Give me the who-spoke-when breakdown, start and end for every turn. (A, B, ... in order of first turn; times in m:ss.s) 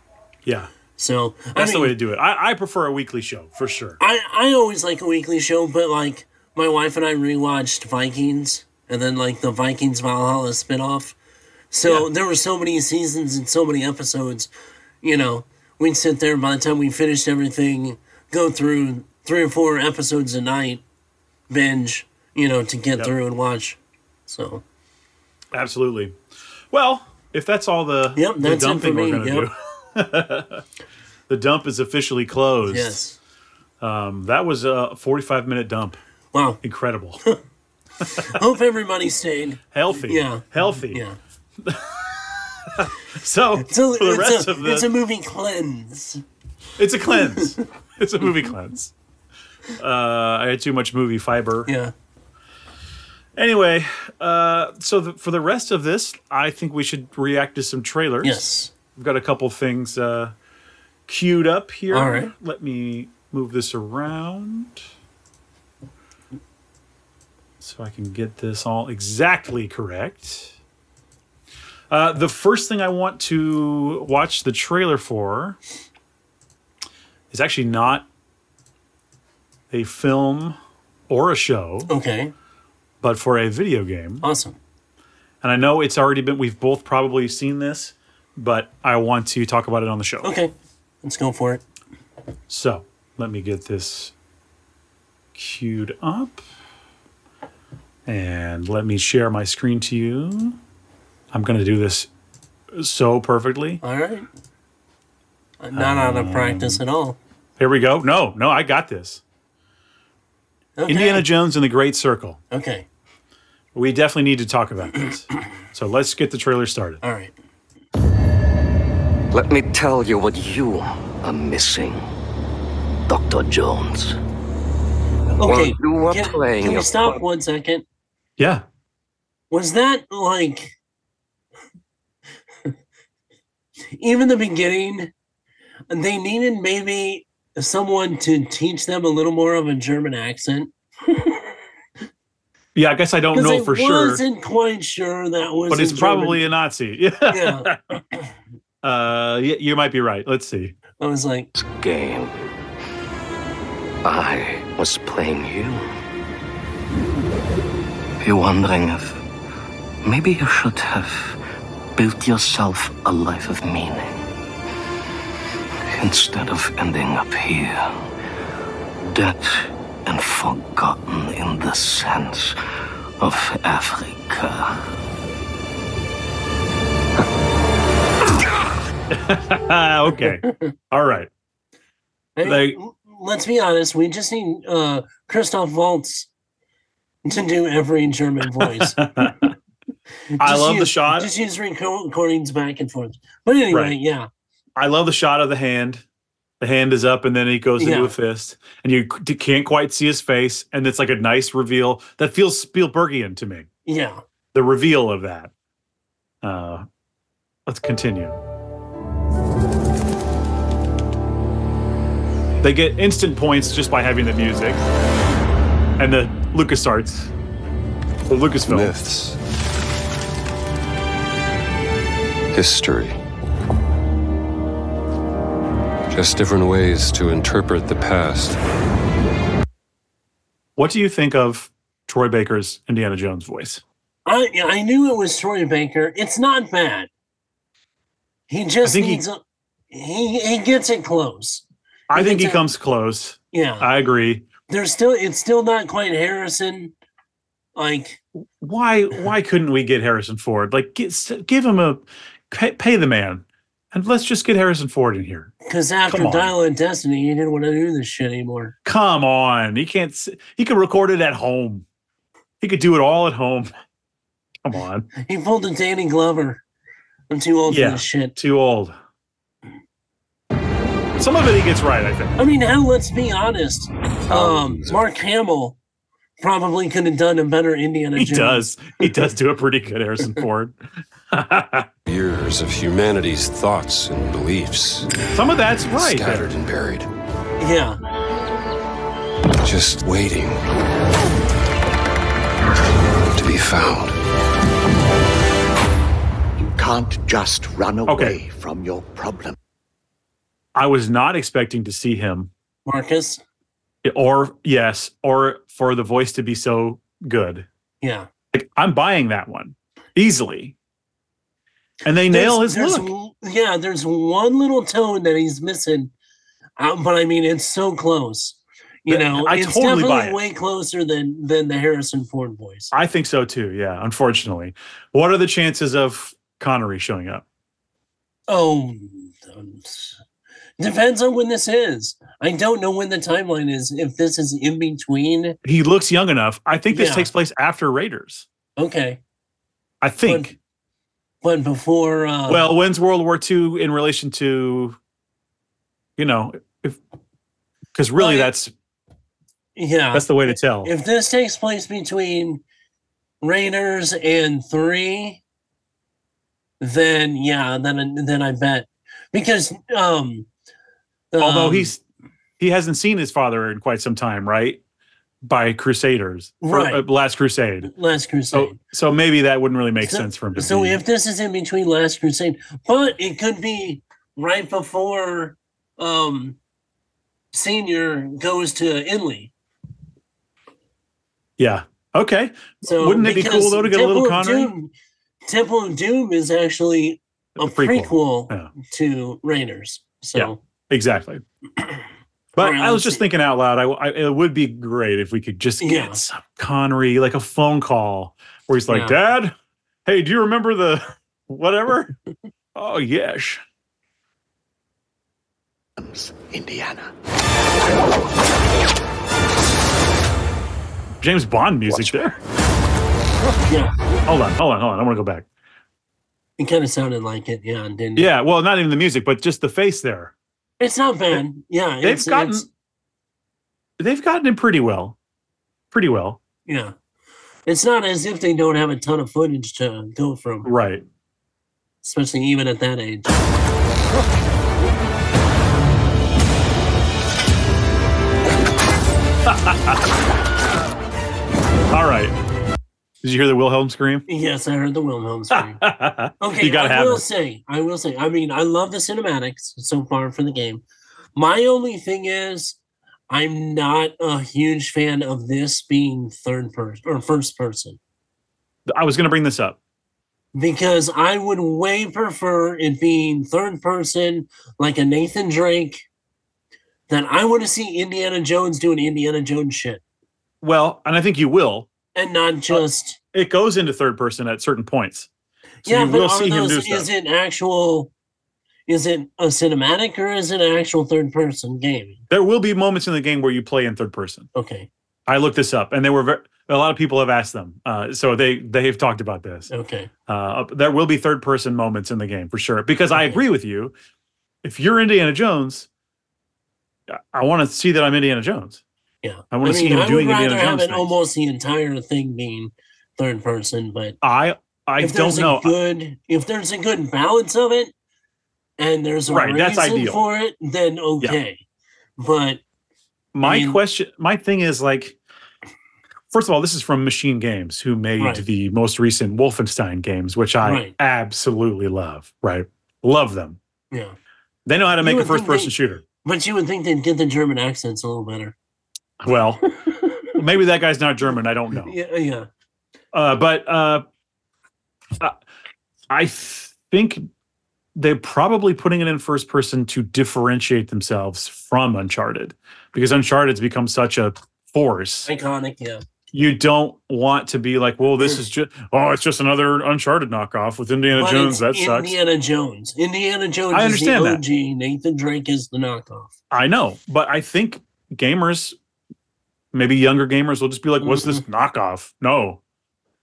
0:00.4-0:00.7 A
0:01.0-0:02.0 B
0:01.5-0:04.0 A
0:04.0-0:11.2 B
0:11.7-0:14.5 B
0:15.0-0:20.8 B
0:21.5-0:24.6 B
0:25.5-0:26.2 A
0:26.7-0:30.6 A
0:28.2-0:29.5 B
0:31.3-0:33.0 A
0:32.7-0:33.2 B
0:33.8-0:36.0 A
0:36.3-0:36.6 B
0:36.6-0:37.2 A
0:38.1-0:41.2 B
0:39.7-0:41.0 A
0:41.6-0:42.0 A
0:42.6-0:44.9 A
0:43.6-0:46.2 B
0:46.8-0:48.9 A
0:49.8-0:51.7 A
0:51.7-0:51.9 B
0:53.3-1:00.3 A
0:58.2-0:58.7 B
1:01.1-1:04.8 A
1:01.9-1:02.3 B
1:07.6-1:10.5 A
1:11.9-1:15.6 A
1:17.3-1:18.0 A
1:19.7-1:20.6 A
1:21.1-1:21.9 A
1:21.9-1:22.3 B
1:23.0-1:24.2 A
1:24.2-1:24.6 B
1:25.4-1:30.3 A
1:30.2-1:31.6 B
1:32.5-1:34.1 A
1:35.3-1:36.4 A
1:38.1-1:40.6 A
1:41.3-1:42.1 A
1:42.7-1:43.8 A
1:43.8-1:44.3 B
1:45.6-1:47.2 B
1:45.7-1:46.8 A
1:47.6-1:49.2 A
1:50.8-1:51.3 B
1:50.9-1:52.4 A
1:52.5-1:52.9 B
1:53.7-1:57.0 A
1:57.0-1:57.3 B
1:59.3-2:02.0 C
2:03.1-2:04.2 C
2:05.4-2:07.8 B
2:05.4-2:07.2 C
2:08.4-2:08.6 A
2:09.5-2:10.7 B
2:13.9-2:15.1 B
2:15.9-2:21.5 B
2:22.7-2:24.2 A
2:23.3-2:26.4 B
2:25.7-2:27.8 A
2:27.3-2:27.7 B
2:28.8-2:30.8 A
2:31.0-2:31.5 B
2:31.6-2:32.3 C
2:34.0-2:35.9 C
2:38.2-2:39.2 C
2:40.0-2:41.4 C
2:42.0-2:44.2 C
2:45.9-2:47.9 C
2:49.0-2:52.6 C
2:53.2-2:54.8 C
2:59.1-3:01.3 A
3:00.2-3:00.6 B
3:02.4-3:06.3 B
3:02.4-3:02.8 A
3:07.2-3:09.3 B
3:08.6-3:09.5 A
3:10.3-3:14.3 B
3:10.4-3:11.3 A
3:13.7-3:14.0 A
3:14.8-3:16.0 A
3:16.6-3:23.7 A
3:17.8-3:18.1 B
3:23.9-3:24.2 B
3:24.5-3:25.5 A
3:26.4-3:26.9 A
3:27.7-3:28.4 A
3:32.6-3:34.8 A
3:36.0-3:37.3 A
3:38.3-3:38.9 A
3:38.7-3:39.4 D
3:42.5-3:43.2 D
3:46.1-3:48.6 D
3:50.8-3:53.8 A
3:54.2-3:57.1 B
3:58.5-4:02.6 B
3:58.8-3:59.2 A
4:02.1-4:04.5 A
4:03.5-4:03.9 B
4:04.7-4:06.9 B
4:07.8-4:08.2 B
4:08.6-4:15.5 A
4:15.6-4:18.7 B
4:16.1-4:16.5 A
4:18.8-4:21.8 A
4:22.6-4:23.7 A
4:24.6-4:25.1 A
4:25.2-4:26.6 B
4:27.3-4:28.3 B
4:27.7-4:28.9 A
4:31.2-4:32.4 A
4:32.4-4:35.8 B
4:36.4-4:38.6 B
4:38.2-4:40.8 A
4:41.3-4:41.9 A
4:42.0-4:45.1 D
4:45.3-4:46.6 A
4:45.9-4:47.1 D
4:47.6-4:48.0 B
4:49.6-4:50.6 D
4:53.3-4:54.1 D
4:56.6-4:59.6 E
4:58.1-4:58.4 A
5:00.7-5:02.5 A
5:02.9-5:03.4 B
5:04.0-5:07.6 A
5:08.0-5:08.3 B
5:08.5-5:10.7 A
5:12.0-5:13.1 A
5:12.3-5:16.1 B
5:16.8-5:22.9 B
5:19.1-5:20.4 A
5:22.9-5:27.4 A
5:28.5-5:30.2 B
5:30.8-5:35.6 B
5:35.6-5:38.4 A
5:36.9-5:37.3 B
5:38.8-5:39.2 B
5:40.0-5:40.5 A
5:40.2-5:40.6 B
5:41.4-5:42.7 B
5:42.5-5:45.0 A
5:46.2-5:47.0 A
5:47.9-5:48.7 A
5:48.2-5:48.5 B
5:49.8-5:52.6 B
5:50.1-5:50.9 A
5:53.4-5:55.4 B
5:56.8-6:00.5 B
6:01.3-6:01.9 B
6:01.4-6:02.0 A
6:02.6-6:04.8 A
6:05.4-6:07.9 A
6:06.6-6:07.0 B
6:07.8-6:08.8 B
6:08.5-6:11.0 A
6:10.0-6:16.6 B
6:17.5-6:19.5 B
6:21.6-6:24.7 A
6:22.8-6:24.9 B
6:25.4-6:30.6 B
6:27.6-6:28.7 A
6:30.3-6:31.4 A
6:32.6-6:39.5 A
6:32.6-6:33.2 B
6:35.8-6:36.2 B
6:38.9-6:39.2 B
6:40.0-6:42.1 A
6:42.7-6:43.6 A
6:46.0-6:47.1 E
6:51.2-6:52.4 A
6:53.7-6:53.9 B
6:54.3-6:55.4 A
6:56.6-6:58.3 B
6:58.2-7:00.3 A
7:00.8-7:02.7 B
7:02.0-7:02.6 A
7:04.0-7:05.2 A
7:05.9-7:06.4 A
7:06.6-7:06.9 B
7:07.6-7:10.7 B
7:10.6-7:11.0 A
7:12.0-7:13.4 B
7:19.4-7:20.0 A
7:21.9-7:22.3 A
7:23.2-7:24.2 A
7:24.3-7:25.8 B
7:25.5-7:27.2 A
7:26.4-7:30.8 B
7:31.4-7:32.8 B
7:33.3-7:38.0 B
7:38.9-7:39.8 A
7:40.5-7:46.0 B
7:47.1-7:50.0 B
7:50.6-7:51.9 A
7:52.1-7:53.2 B
7:52.7-7:55.3 A
7:55.8-7:57.1 A
7:55.8-7:58.1 B
7:58.9-8:02.2 B
8:02.3-8:04.5 A
8:04.5-8:04.9 B
8:05.3-8:09.7 A
8:09.7-8:10.1 B
8:10.3-8:13.9 A
8:13.1-8:13.4 B
8:14.6-8:15.9 A
8:17.1-8:18.8 A
8:19.2-8:24.2 B
8:19.5-8:21.1 A
8:24.2-8:25.7 A
8:25.0-8:27.9 B
8:28.8-8:31.6 B
8:29.3-8:30.2 A
8:32.2-8:32.6 B
8:33.3-8:35.2 A
8:33.4-8:33.8 B
8:36.3-8:43.6 A
8:38.2-8:38.4 B
8:40.6-8:40.9 B
8:44.6-8:46.0 A
8:45.0-8:48.5 B
8:49.2-8:49.6 A
8:49.8-8:50.2 B
8:50.3-8:51.9 A
8:51.8-8:52.5 B
8:53.1-8:54.0 A
8:56.1-8:57.3 A
8:58.0-9:05.3 A
9:05.2-9:06.0 B
9:06.3-9:12.2 A
9:11.1-9:16.3 B
9:13.7-9:14.4 A
9:16.5-9:18.8 A
9:19.7-9:22.6 A
9:21.0-9:21.4 B